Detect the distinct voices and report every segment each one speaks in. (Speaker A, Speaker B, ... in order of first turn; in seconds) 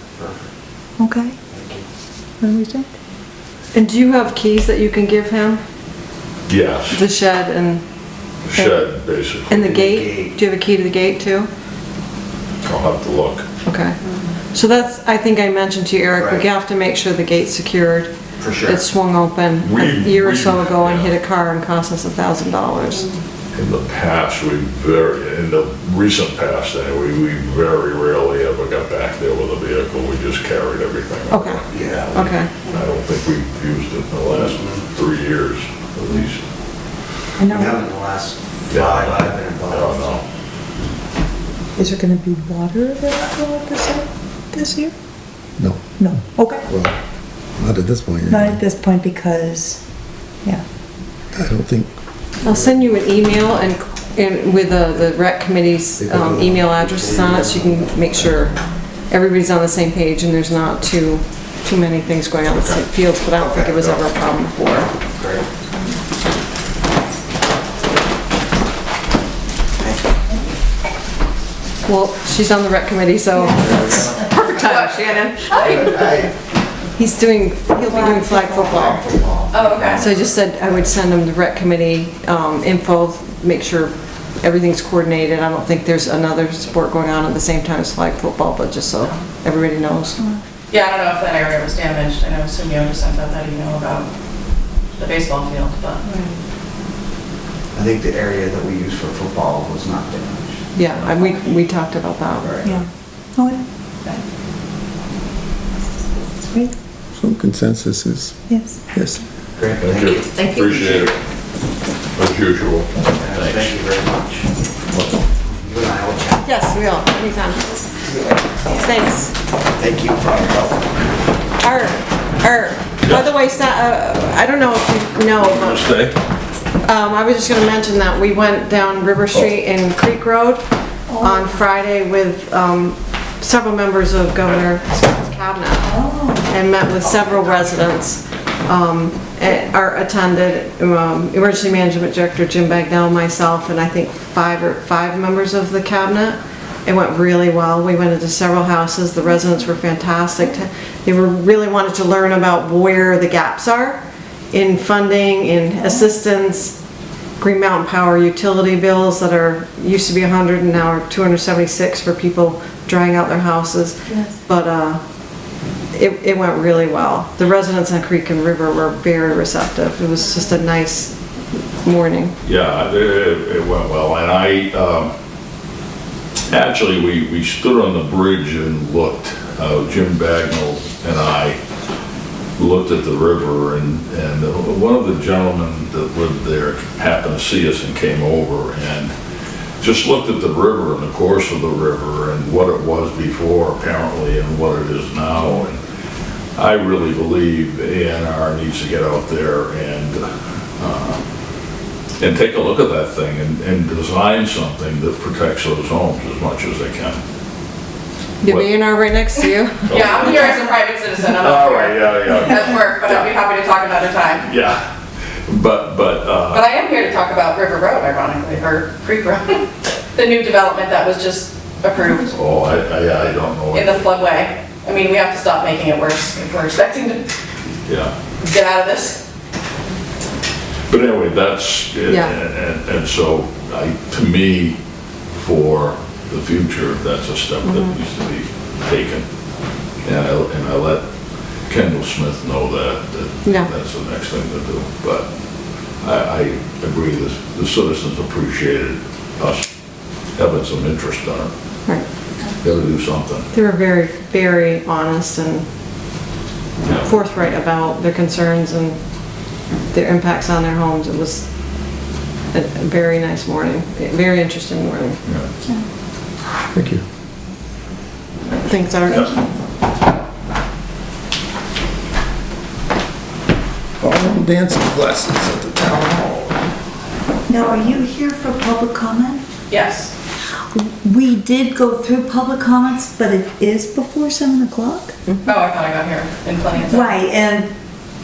Speaker A: 0.2-0.5, 1.5-1.9, 9.5-10.3, 16.1-16.4, 18.4-18.8, 31.7-32.0, 34.3-34.8, 37.5-40.2, 56.1-58.4, 63.4-63.8, 65.1-65.5, 73.6-74.2, 75.5-76.3, 78.6-80.1, 97.7-100.6, 102.4-102.8, 109.6-111.2, 113.1-114.5, 115.4-116.4, 119.8-120.9
Speaker B: 1.0-1.4, 2.4-2.9, 37.4-37.8, 41.8-44.9, 46.0-46.6, 48.3-49.8, 77.7-78.9, 96.0-96.4, 102.6-103.7, 106.5-106.7, 108.5-108.8, 131.1-131.6, 135.8-136.5, 155.8-156.1, 164.1-164.4, 269.1-269.4, 277.5-279.4, 280.7-285.1, 286.8-287.7
Speaker C: 3.7-5.6, 6.9-7.8, 8.5-8.9, 9.5-11.5, 13.6-14.0, 14.5-18.1, 18.6-23.1, 31.3-32.5, 52.4-58.5, 59.1-64.9, 71.8-75.9, 77.0-79.0, 79.9-90.2, 100.7-102.5, 116.4-117.8, 118.7-119.3, 121.6-125.8, 126.8-130.6, 131.2-135.9, 136.4-156.8, 157.4-165.0, 165.9-171.2, 171.8-172.3, 208.4-210.6, 232.1-232.3, 237.6-238.0, 243.4-243.7, 253.5-255.7, 257.0-259.0, 259.9-261.4, 262.5-265.2, 268.6-269.3
Speaker D: 6.5-7.0, 8.4-9.7, 12.6-13.4, 19.6-21.1, 23.5-36.4, 38.7-40.2, 109.8-111.2, 112.2-113.8, 125.4-126.1, 172.4-175.1, 176.5-181.6, 182.6-189.1, 189.8-195.8, 196.6-200.2, 200.8-201.2, 202.2-207.2, 209.9-210.6, 211.3-213.3, 214.4-214.8, 215.5-216.7, 222.3-224.2, 227.9-228.1, 230.9-234.8, 235.3-239.2, 240.0-241.0, 241.7-245.3, 246.0-249.7, 250.3-251.5, 252.6-253.4, 256.8-257.1, 265.2-265.5
Speaker E: 45.6-45.9, 46.6-47.0, 47.5-48.6, 51.3-51.9, 107.1-108.4, 108.9-109.2, 266.7-267.0, 274.0-276.5
Speaker F: 74.5-75.9, 79.5-80.1, 90.7-94.1, 95.0-96.0, 209.9-214.5, 216.5-222.3, 223.7-227.3, 228.4-229.2, 279.7-280.1, 285.4-287.2